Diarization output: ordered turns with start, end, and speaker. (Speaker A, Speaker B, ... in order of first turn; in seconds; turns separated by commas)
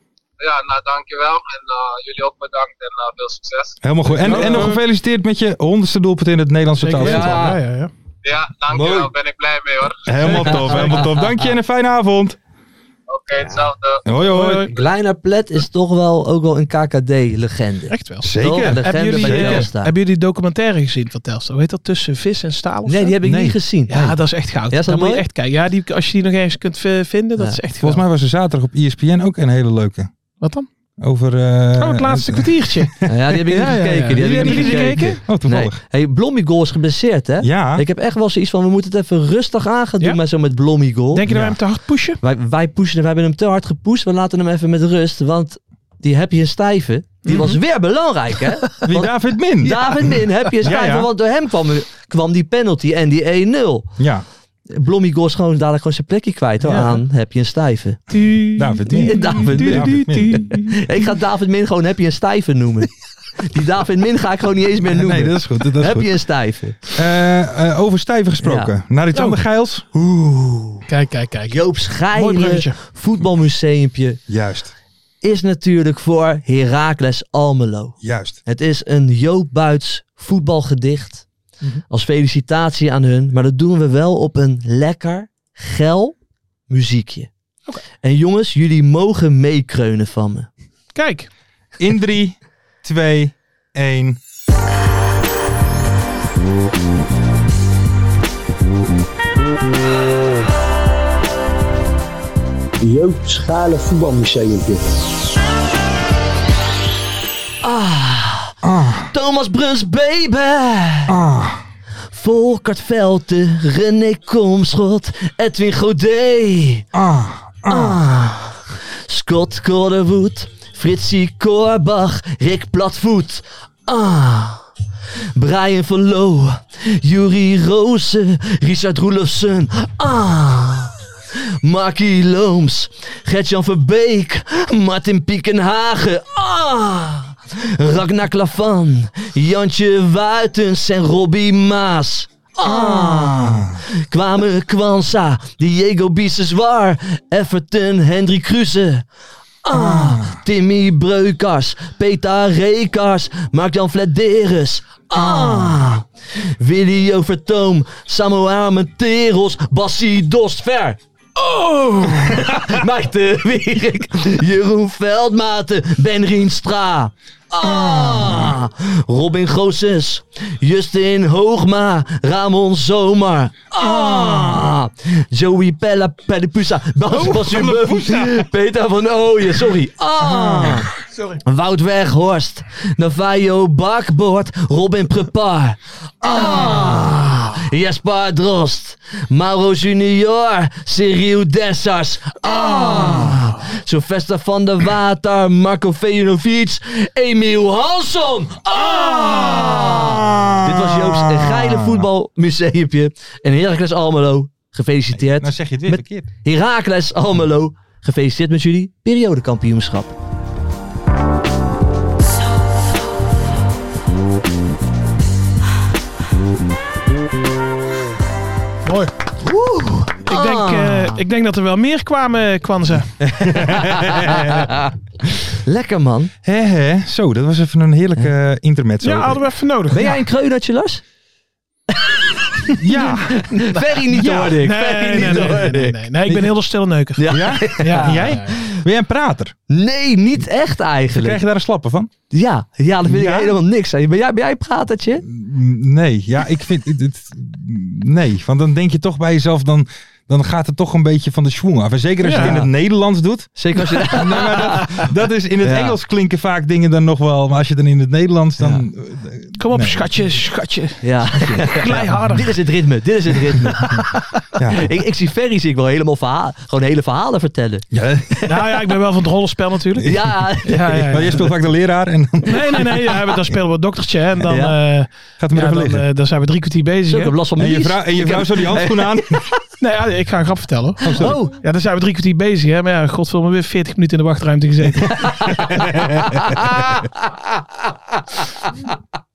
Speaker A: 0.4-3.8, Speaker B: 3.8-7.5, Speaker C: 4.2-4.8, Speaker D: 4.2-4.7, Speaker C: 6.8-7.9, Speaker D: 7.0-7.6, Speaker A: 8.2-10.1, Speaker D: 8.7-9.1, Speaker B: 10.1-12.4, Speaker C: 10.2-10.9, Speaker D: 10.2-11.5, Speaker A: 13.1-14.1, Speaker D: 13.4-13.7, Speaker B: 14.0-14.7, Speaker C: 14.3-14.7, Speaker D: 14.7-19.9, Speaker C: 17.9-23.2, Speaker B: 18.2-19.7, Speaker D: 22.9-24.0, Speaker B: 23.2-24.2, Speaker C: 23.9-28.0, Speaker D: 24.7-25.2, Speaker B: 27.8-30.1, Speaker C: 30.4-30.7, Speaker B: 31.0-35.8, Speaker C: 31.8-32.9, Speaker D: 33.1-41.3, Speaker C: 33.5-35.2, Speaker B: 37.4-37.8, Speaker C: 41.1-42.2, Speaker B: 41.3-41.6, Speaker D: 42.2-53.9, Speaker C: 47.2-47.6, Speaker B: 48.9-51.1, Speaker B: 54.0-54.2, Speaker D: 54.7-58.0, Speaker C: 56.6-57.0, Speaker C: 58.1-60.7, Speaker B: 58.5-60.6, Speaker D: 58.9-66.8, Speaker B: 64.8-66.1, Speaker B: 66.9-69.8, Speaker D: 68.4-68.7, Speaker D: 69.9-70.8, Speaker C: 70.9-72.8, Speaker D: 71.5-74.2, Speaker B: 74.3-74.7, Speaker D: 75.2-81.2, Speaker B: 78.0-78.4, Speaker D: 81.9-86.1, Speaker D: 86.7-87.3, Speaker D: 88.0-90.5, Speaker C: 90.9-91.3, Speaker B: 91.8-94.2, Speaker E: 102.8-104.8, Speaker D: 107.6-108.5, Speaker B: 108.6-109.1, Speaker D: 109.1-111.2, Speaker B: 111.1-111.6, Speaker D: 112.1-116.8, Speaker B: 116.9-118.0, Speaker D: 117.7-124.7, Speaker D: 125.3-130.9, Speaker D: 131.6-149.1, Speaker B: 142.6-143.8, Speaker D: 149.6-156.1, Speaker B: 149.7-150.4, Speaker B: 155.2-155.8, Speaker D: 156.6-180.9, Speaker B: 167.6-168.6, Speaker B: 173.8-174.7, Speaker B: 177.1-178.5, Speaker B: 180.2-180.9, Speaker D: 181.4-210.1, Speaker B: 198.7-202.1, Speaker B: 205.1-206.3, Speaker C: 218.8-219.1, Speaker D: 219.4-221.2, Speaker C: 220.2-223.1, Speaker B: 223.4-224.7, Speaker D: 223.4-226.3, Speaker B: 226.4-229.4, Speaker C: 229.0-230.2, Speaker D: 229.9-231.0, Speaker D: 231.9-232.7, Speaker B: 232.8-234.6, Speaker D: 233.3-235.9, Speaker C: 234.5-238.5, Speaker B: 235.2-235.6, Speaker B: 236.2-236.5, Speaker D: 237.2-238.7, Speaker B: 237.3-239.5, Speaker D: 239.7-241.4, Speaker B: 241.1-242.1, Speaker D: 242.3-245.2, Speaker B: 243.0-243.6, Speaker B: 245.2-260.3, Speaker C: 252.2-252.6, Speaker D: 252.4-252.7, Speaker D: 253.6-255.1, Speaker D: 255.6-255.9, Speaker C: 259.6-262.6, Speaker D: 261.0-267.9, Speaker B: 264.6-264.9, Speaker B: 267.9-268.7, Speaker C: 268.5-271.4, Speaker D: 270.1-271.4, Speaker B: 271.1-273.6, Speaker C: 272.4-277.4, Speaker D: 274.5-274.8, Speaker B: 275.4-276.1, Speaker D: 277.1-279.6, Speaker B: 277.6-279.4, Speaker C: 279.8-285.5, Speaker D: 281.0-281.5, Speaker B: 281.1-281.4, Speaker D: 285.1-288.9, Speaker B: 285.6-286.5